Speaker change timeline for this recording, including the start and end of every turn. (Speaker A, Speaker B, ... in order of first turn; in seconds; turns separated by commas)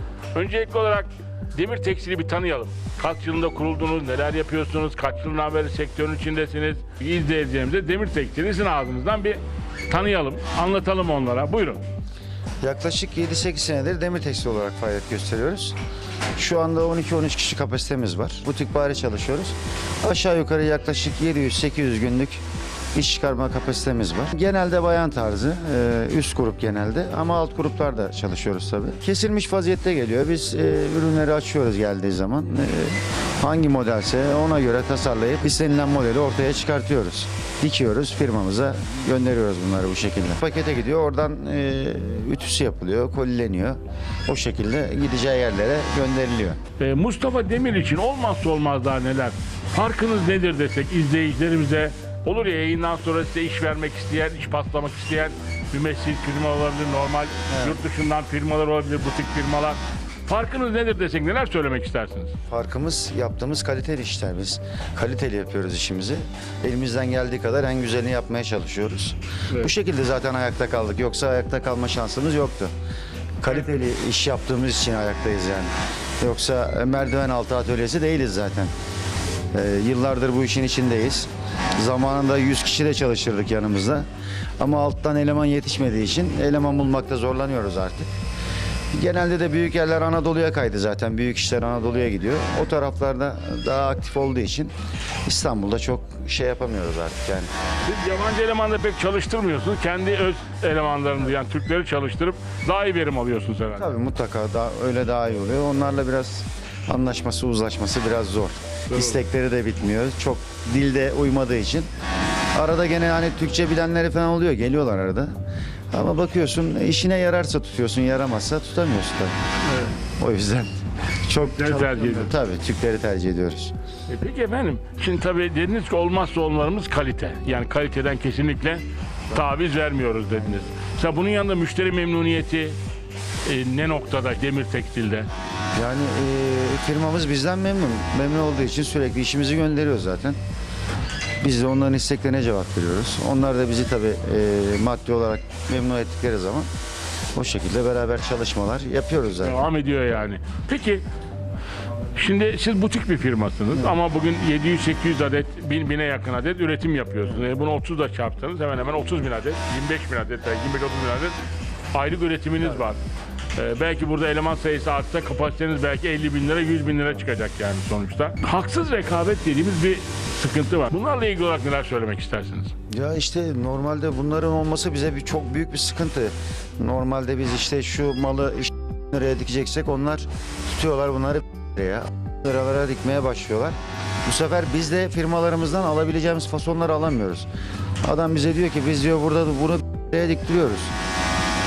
Speaker A: 0.3-11.8, Speaker B: 12.6-15.8, Speaker B: 16.4-22.4, Speaker B: 22.9-46.6, Speaker A: 46.8-62.3, Speaker B: 57.5-57.8, Speaker B: 62.5-72.7, Speaker B: 73.4-78.7, Speaker B: 79.5-84.0, Speaker B: 84.6-88.1, Speaker B: 88.9-94.7, Speaker B: 95.2-97.5, Speaker A: 97.8-103.9, Speaker B: 103.7-111.9, Speaker A: 108.9-109.2, Speaker B: 112.5-115.3, Speaker B: 115.9-119.3, Speaker A: 119.7-120.0, Speaker B: 120.2-123.7, Speaker A: 121.4-122.3, Speaker A: 124.1-132.8, Speaker A: 133.4-135.3, Speaker B: 135.8-140.4, Speaker B: 141.4-146.7, Speaker B: 147.3-149.7, Speaker A: 149.4-151.0, Speaker A: 152.1-161.3, Speaker A: 161.9-163.0, Speaker A: 163.6-172.7, Speaker B: 172.9-187.5, Speaker B: 188.0-190.9